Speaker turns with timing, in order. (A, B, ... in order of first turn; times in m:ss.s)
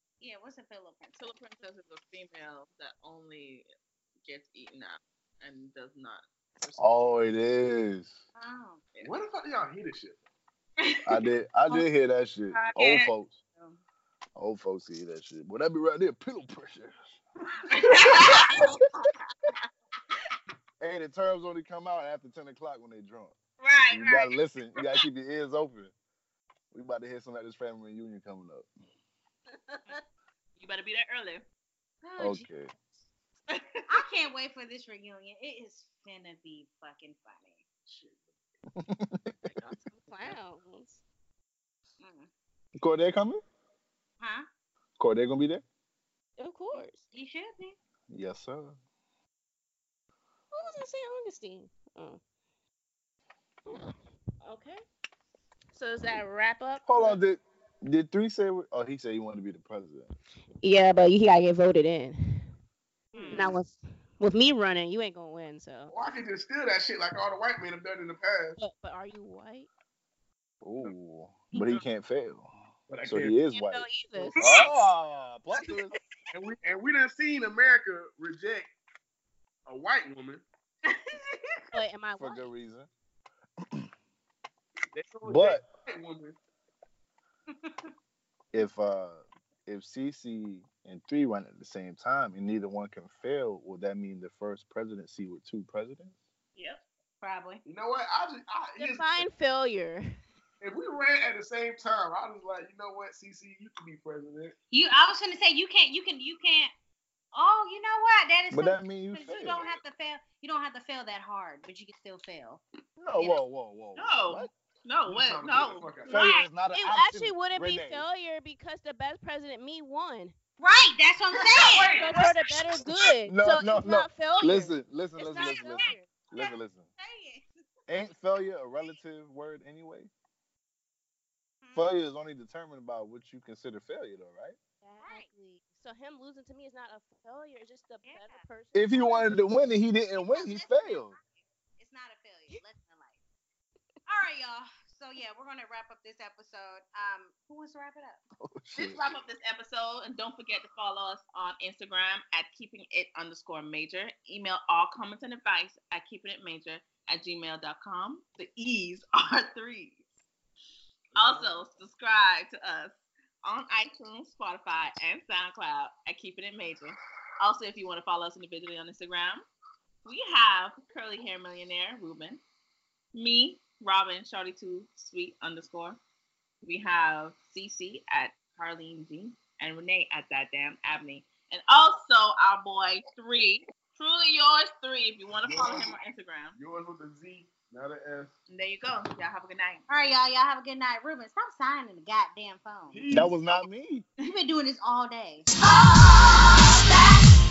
0:00.2-0:01.2 A
0:01.1-0:03.7 B
0:04.2-0:06.2 B
0:06.8-0:08.2 C
0:08.4-0:08.8 A
0:09.0-0:10.2 D
0:11.1-0:13.4 C
0:12.5-0:13.1 B
0:14.4-0:17.0 C
0:17.7-0:18.9 B
0:17.7-0:18.6 D
0:20.8-0:25.9 C
0:23.6-0:25.0 B
0:26.7-0:28.7 C
0:29.7-0:30.0 E
0:30.6-0:31.4 B
0:32.0-0:32.5 A
0:32.2-0:32.7 C
0:33.5-0:33.8 B
0:33.9-0:37.6 A
0:37.9-0:38.3 D
0:38.8-0:39.3 C
0:39.5-0:41.0 E
0:42.0-0:42.3 A
0:42.8-0:43.4 C
0:44.2-0:44.5 A
0:45.0-0:45.6 C
0:46.4-0:47.0 E
0:46.7-0:47.8 A
0:48.1-0:48.8 C
0:50.5-0:52.2 E
0:53.7-0:54.8 E
0:55.7-0:57.2 E
0:56.9-1:00.1 C
1:00.6-1:02.5 E
1:03.1-1:03.6 A
1:03.2-1:05.9 E
1:03.2-1:03.5 B
1:05.9-1:08.6 D
1:08.6-1:09.7 E
1:10.6-1:12.5 C
1:12.9-1:13.4 D
1:13.0-1:16.0 C
1:13.5-1:14.7 E
1:16.3-1:18.7 D
1:19.7-1:20.4 D
1:21.7-1:22.5 E
1:22.2-1:22.9 C
1:24.9-1:26.4 D
1:25.2-1:25.6 C
1:27.6-1:27.9 A
1:28.5-1:36.2 C
1:36.6-1:36.8 B
1:37.2-1:37.6 A
1:37.6-1:39.3 D
1:38.8-1:40.2 E
1:40.6-1:44.6 D
1:44.7-1:46.7 A
1:47.3-1:52.6 A
1:48.5-1:49.8 C
1:53.0-1:54.5 C
1:54.0-1:55.9 B
1:55.1-1:56.2 D
1:56.1-1:58.0 C
1:56.1-1:56.5 A
1:56.4-2:00.3 E
2:00.6-2:02.2 A
2:01.6-2:02.4 B
2:01.9-2:06.1 E
2:03.3-2:06.9 C
2:05.2-2:07.4 A
2:07.9-2:10.1 C
2:11.6-2:11.9 A
2:11.7-2:14.6 C
2:14.8-2:19.5 E
2:15.0-2:15.3 A
2:18.0-2:18.4 A
2:18.7-2:21.2 C
2:20.2-2:21.2 A
2:21.8-2:23.2 A
2:24.1-2:28.2 A
2:28.4-2:29.1 C
2:28.8-2:40.1 B
2:41.1-2:41.7 D
2:41.2-2:49.4 B
2:50.0-2:52.4 B
2:53.1-2:56.0 B
2:56.6-3:06.6 B
3:05.4-3:06.0 D
3:06.5-3:08.3 D
3:08.5-3:09.8 B
3:09.9-3:13.0 A
3:12.9-3:13.7 D
3:13.1-3:14.1 C
3:14.2-3:15.5 A